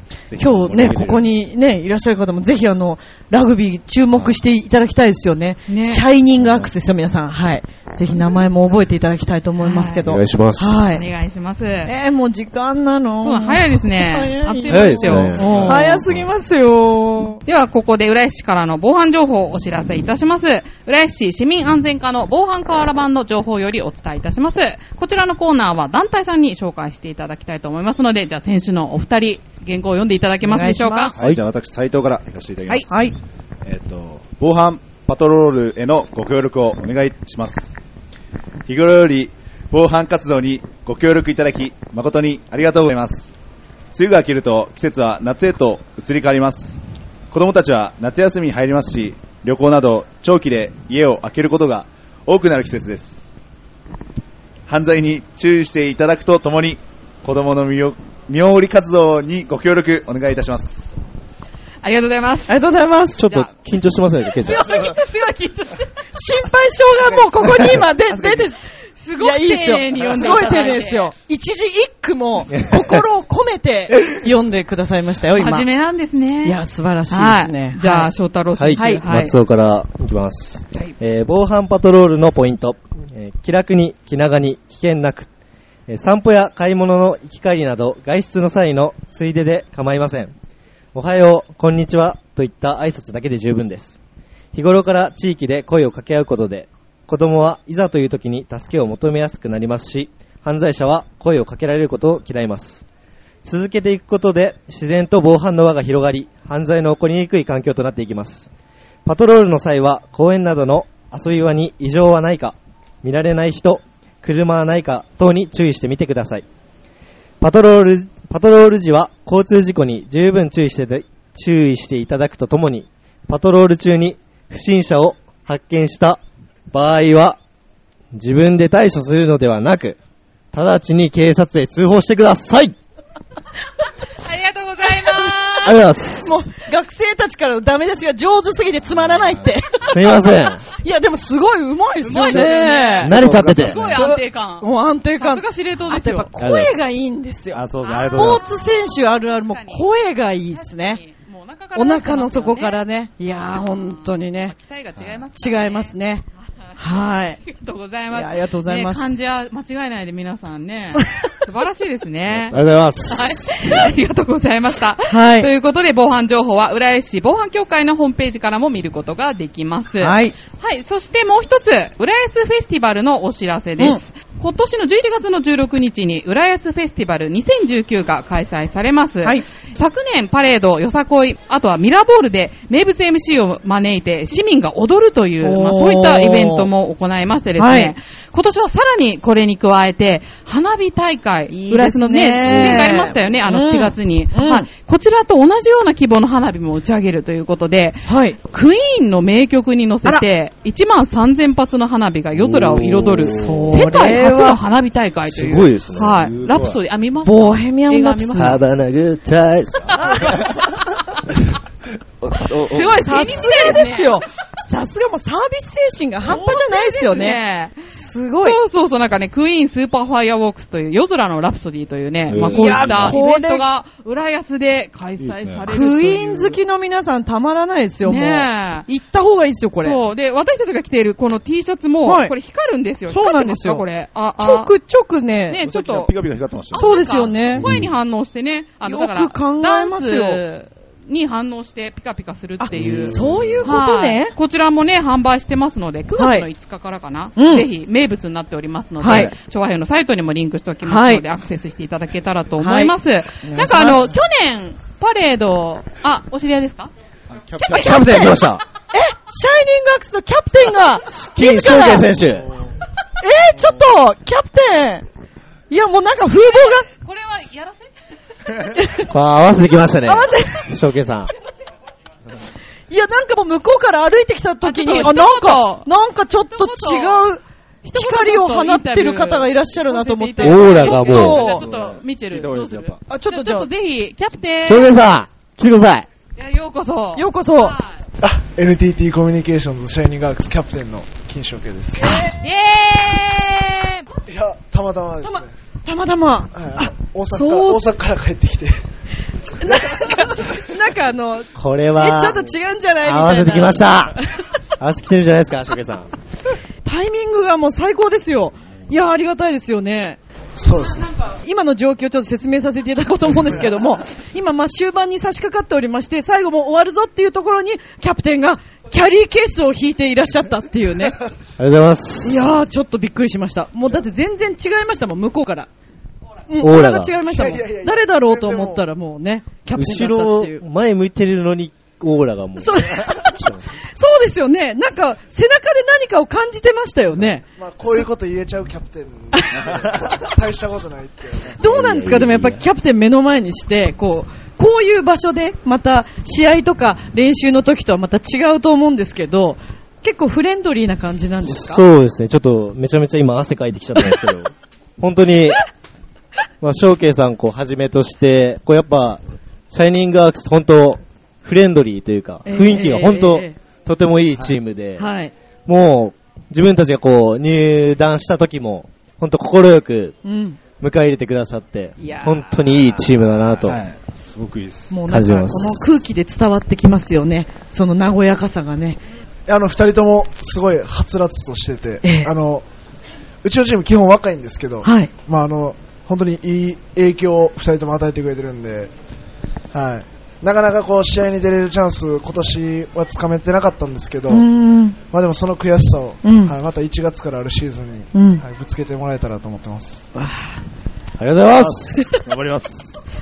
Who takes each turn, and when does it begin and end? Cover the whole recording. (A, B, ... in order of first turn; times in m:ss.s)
0:00.3-0:01.4 A
0:00.4-0:11.1 B
0:04.1-0:04.4 A
0:05.7-0:06.0 C
0:09.6-0:10.0 C
0:10.0-0:10.8 D
0:10.9-0:11.9 C
0:11.9-0:17.4 B
0:13.2-0:16.0 C
0:14.7-0:15.9 D
0:17.5-0:31.2 C
0:30.4-0:31.1 B
0:31.2-0:32.9 A
0:32.7-0:33.2 B
0:33.6-0:37.8 A
0:38.7-0:43.3 A
0:43.9-0:46.8 A
0:47.3-0:53.3 A
0:54.7-1:01.0 A
1:01.8-1:02.5 C
1:02.5-1:03.4 B
1:03.2-1:04.9 D
1:04.4-1:06.0 C
1:04.6-1:04.9 A
1:06.2-1:15.7 B
1:07.9-1:08.5 A
1:09.0-1:11.1 C
1:15.3-1:19.3 C
1:16.4-1:18.1 B
1:18.6-1:25.3 D
1:18.8-1:19.1 B
1:25.9-1:30.3 D
1:30.9-1:34.0 D
1:34.5-1:42.8 D
1:43.4-1:48.5 D
1:49.1-1:56.4 D
1:57.4-2:07.4 D
2:08.1-2:10.0 D
2:10.5-2:12.8 D
2:14.2-2:15.8 C
2:15.0-2:23.2 B
2:15.6-2:16.4 D
2:19.9-2:20.6 D
2:22.0-2:26.3 C
2:22.2-2:22.5 A
2:23.0-2:23.9 D
2:23.1-2:24.0 A
2:23.8-2:31.0 B
2:26.4-2:26.8 D
2:27.5-2:28.5 A
2:27.8-2:29.9 C
2:30.5-2:35.9 C
2:31.8-2:34.6 B
2:35.0-2:35.2 A
2:35.4-2:36.2 B
2:36.8-2:37.4 B
2:37.4-3:28.6 C
2:38.1-2:39.1 B
2:41.0-2:41.3 B
2:42.5-2:43.6 D
2:45.1-2:45.5 B
2:50.0-2:50.4 B
3:05.4-3:06.7 B
3:07.6-3:08.0 B
3:11.5-3:14.7 B
3:12.4-3:13.0 D
3:18.1-3:18.4 B
3:22.4-3:24.1 D
3:23.2-3:24.6 B
3:25.3-3:26.2 D
3:26.0-3:26.8 A
3:27.2-3:28.6 B
3:28.4-3:30.4 D
3:30.0-3:30.3 B
3:30.1-3:31.2 C
3:30.3-3:30.7 A
3:32.2-3:33.0 A
3:32.5-3:34.2 C
3:32.7-3:38.6 B
3:36.2-3:37.9 C
3:38.4-3:46.6 C
3:42.3-3:43.2 A
3:42.3-3:43.6 B
3:45.2-3:45.7 A
3:45.7-3:50.0 B
3:48.0-3:48.9 C
3:49.8-3:54.7 C
3:52.0-3:52.3 B
3:53.1-3:53.8 B
3:54.4-3:55.6 B
3:55.5-3:56.1 C
3:55.6-3:57.8 A
3:56.7-4:16.9 C
3:56.7-3:57.7 B
3:58.8-4:00.6 B
4:02.6-4:04.3 B
4:02.7-4:03.6 A
4:06.2-4:06.5 B
4:07.4-4:07.7 B
4:09.0-4:09.3 B
4:09.1-4:09.3 A
4:10.8-4:11.2 B
4:12.6-4:14.1 B
4:17.3-4:18.4 A
4:17.6-4:18.4 C
4:17.7-4:18.6 D
4:18.0-4:18.3 B
4:18.9-4:22.1 B
4:21.3-4:22.5 D
4:23.2-4:25.1 B
4:25.7-4:26.9 B
4:26.4-4:27.9 C
4:28.8-4:29.1 B
4:29.1-4:31.3 D
4:30.0-4:30.7 B
4:32.9-4:41.7 B
4:34.6-4:35.9 C
4:36.5-4:37.3 C
4:37.9-4:44.9 C
4:40.4-4:41.4 D
4:41.4-4:43.0 A
4:43.1-4:43.7 B
4:44.6-4:46.1 D
4:46.4-4:47.9 C
4:47.2-4:47.8 B
4:48.2-4:52.3 E
4:52.2-4:54.1 C
4:54.3-4:55.5 E
4:55.2-4:57.8 B
4:56.5-4:58.8 E
4:59.5-5:04.5 B
5:01.6-5:02.5 D
5:03.0-5:04.2 D
5:04.8-5:06.1 D
5:06.8-5:10.2 B
5:10.6-5:11.2 E
5:11.2-5:21.2 B
5:21.6-5:22.5 D
5:22.2-5:25.7 B
5:26.5-5:30.6 B
5:26.6-5:27.2 D
5:27.2-5:28.8 E
5:29.8-5:33.6 D
5:32.6-5:38.1 B
5:37.6-5:41.6 E
5:39.3-5:39.6 B
5:41.6-5:51.8 B
5:41.6-5:42.6 D
5:51.4-5:55.6 D
5:56.6-6:05.1 D
6:02.5-6:03.6 B
6:05.0-6:05.3 B
6:05.7-6:10.2 D
6:10.2-6:10.6 B
6:10.8-6:13.8 D
6:12.0-6:12.8 B
6:13.6-6:14.9 A
6:14.9-6:19.0 B
6:15.1-6:16.0 D
6:19.5-6:22.6 E
6:22.0-6:22.3 B
6:23.4-6:28.9 E
6:24.8-6:25.1 B
6:29.7-6:34.5 E
6:34.3-6:35.0 B
6:35.1-6:40.0 E
6:36.2-6:36.6 B
6:38.1-6:38.4 B
6:40.2-6:40.6 B
6:41.2-6:42.1 D
6:41.5-6:43.0 A